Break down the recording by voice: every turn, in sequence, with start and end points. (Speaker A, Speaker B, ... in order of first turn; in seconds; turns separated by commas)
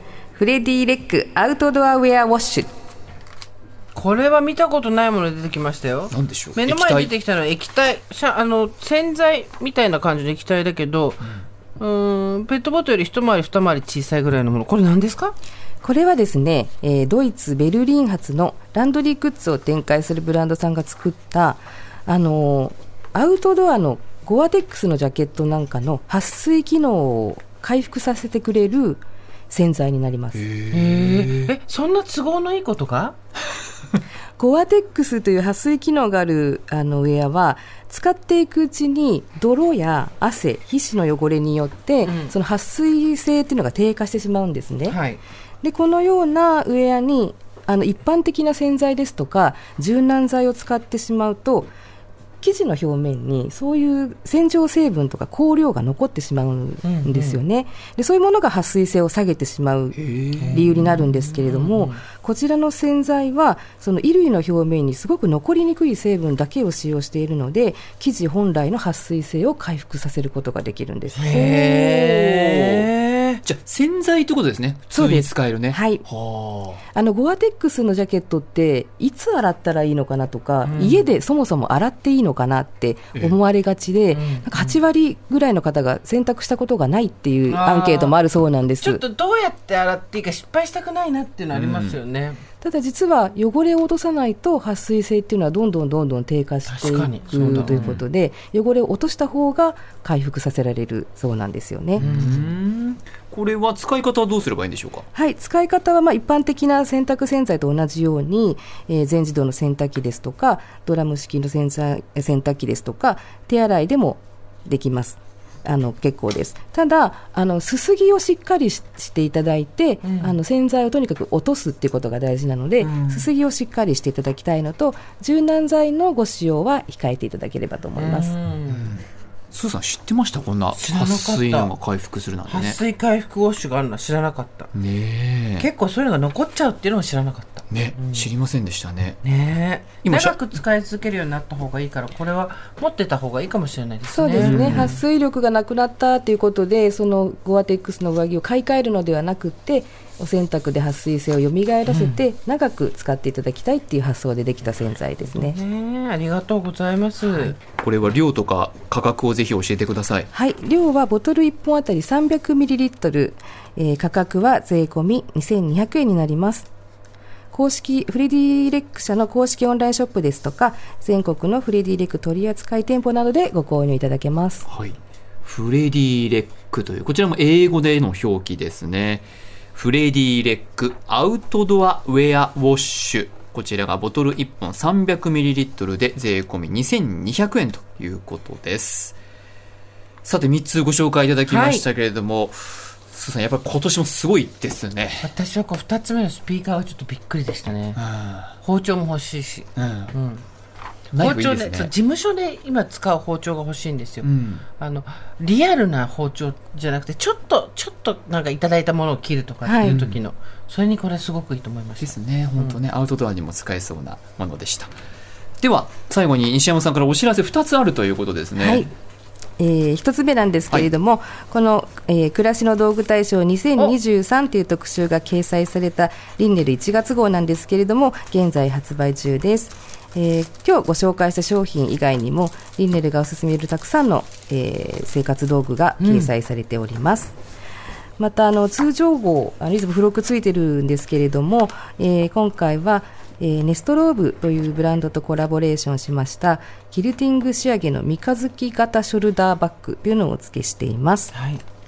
Speaker A: 0.3-2.7, Speaker B: 3.9-15.3, Speaker C: 6.1-7.1, Speaker A: 15.8-30.4, Speaker C: 30.3-31.5, Speaker B: 30.7-33.1, Speaker A: 34.4-45.0, Speaker B: 42.0-42.3, Speaker B: 44.9-45.2, Speaker A: 45.6-51.7, Speaker A: 52.4-60.0, Speaker B: 56.8-57.4, Speaker C: 59.9-60.8, Speaker B: 60.4-62.0, Speaker A: 60.5-72.2, Speaker B: 71.1-73.4, Speaker C: 72.3-72.9, Speaker C: 73.4-76.8, Speaker A: 74.9-76.0, Speaker A: 76.9-89.0, Speaker B: 80.6-81.1, Speaker B: 84.1-84.8, Speaker B: 87.5-88.2, Speaker B: 88.8-92.4, Speaker C: 91.5-92.0, Speaker A: 92.6-102.0, Speaker B: 96.7-97.8, Speaker C: 97.6-98.0, Speaker C: 102.0-105.0, Speaker B: 102.0-102.4, Speaker A: 105.1-128.3, Speaker B: 120.0-120.4, Speaker C: 122.8-123.3, Speaker B: 128.0-128.9, Speaker C: 128.7-132.8, Speaker B: 130.7-131.7, Speaker B: 132.5-134.7, Speaker C: 134.7-135.7, Speaker B: 135.6-138.3, Speaker C: 137.7-139.2, Speaker B: 139.2-144.9, Speaker C: 140.0-140.4, Speaker A: 144.1-155.6, Speaker C: 144.4-145.0, Speaker B: 151.9-152.2, Speaker B: 155.2-157.6, Speaker C: 157.6-160.3, Speaker A: 160.3-166.7, Speaker A: 167.5-174.7, Speaker C: 174.7-189.2, Speaker C: 190.2-195.3, Speaker B: 191.4-191.8, Speaker B: 195.2-198.0, Speaker C: 197.9-198.5, Speaker B: 198.6-200.4, Speaker C: 199.8-200.1, Speaker C: 201.1-201.9, Speaker B: 201.1-212.8, Speaker C: 204.2-204.6, Speaker A: 209.6-210.0, Speaker C: 209.8-210.2, Speaker C: 212.0-214.9, Speaker C: 215.6-218.9, Speaker A: 218.6-218.9, Speaker A: 219.6-237.3, Speaker B: 236.0-236.3, Speaker A: 238.2-251.3, Speaker B: 251.3-251.6